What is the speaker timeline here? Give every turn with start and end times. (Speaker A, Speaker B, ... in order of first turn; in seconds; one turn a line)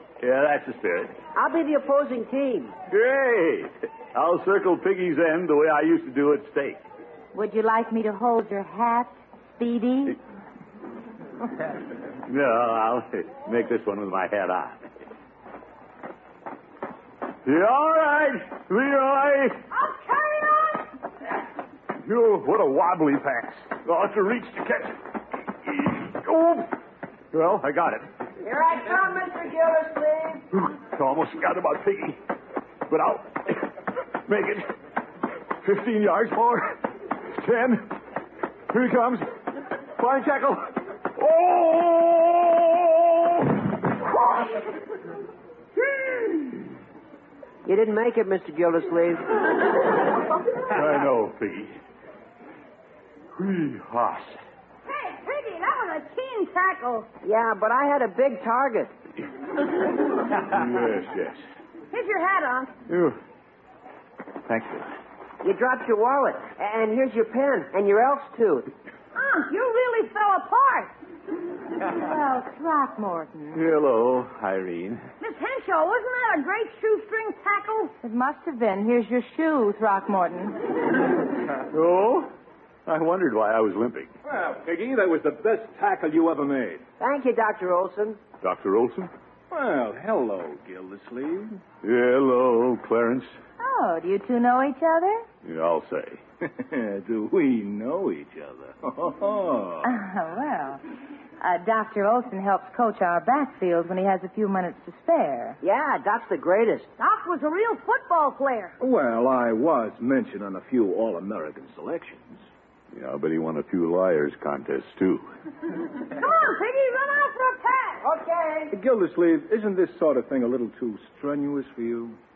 Speaker A: 0.2-1.1
Speaker B: 1.3-2.7
Speaker A: 2.9-6.8
Speaker C: 7.3-10.2
Speaker A: 12.2-14.8
Speaker A: 17.4-19.6
Speaker D: 19.7-20.9
Speaker A: 22.0-25.0
Speaker A: 25.6-26.7
Speaker A: 27.3-28.1
Speaker B: 28.4-30.4
Speaker A: 30.5-32.2
Speaker A: 32.9-33.6
Speaker A: 34.2-34.7
Speaker A: 35.6-37.9
Speaker A: 38.7-39.3
Speaker A: 40.0-43.9
Speaker A: 46.1-46.5
Speaker B: 47.6-49.3
Speaker A: 50.7-51.7
Speaker A: 53.3-54.4
Speaker D: 54.9-57.1
Speaker B: 57.2-58.9
Speaker A: 60.4-61.4
Speaker D: 61.9-62.7
Speaker A: 62.9-63.2
Speaker A: 64.5-64.9
Speaker B: 65.4-68.7
Speaker D: 69.1-70.9
Speaker C: 71.8-73.6
Speaker A: 73.5-75.0
Speaker D: 75.2-77.9
Speaker C: 78.0-80.6
Speaker A: 81.7-82.3
Speaker A: 82.8-84.1
Speaker E: 84.2-86.8
Speaker B: 87.0-88.2
Speaker A: 88.4-89.1
Speaker E: 89.5-91.6
Speaker A: 91.8-93.3
Speaker C: 93.6-95.2
Speaker A: 95.4-96.2
Speaker E: 96.4-99.9
Speaker C: 99.8-100.8
Speaker C: 101.4-105.6
Speaker B: 105.6-106.9
Speaker D: 107.0-108.7
Speaker E: 108.8-112.4
Speaker A: 112.9-115.2
Speaker D: 116.1-118.0
Speaker B: 118.0-118.7
Speaker E: 118.7-122.2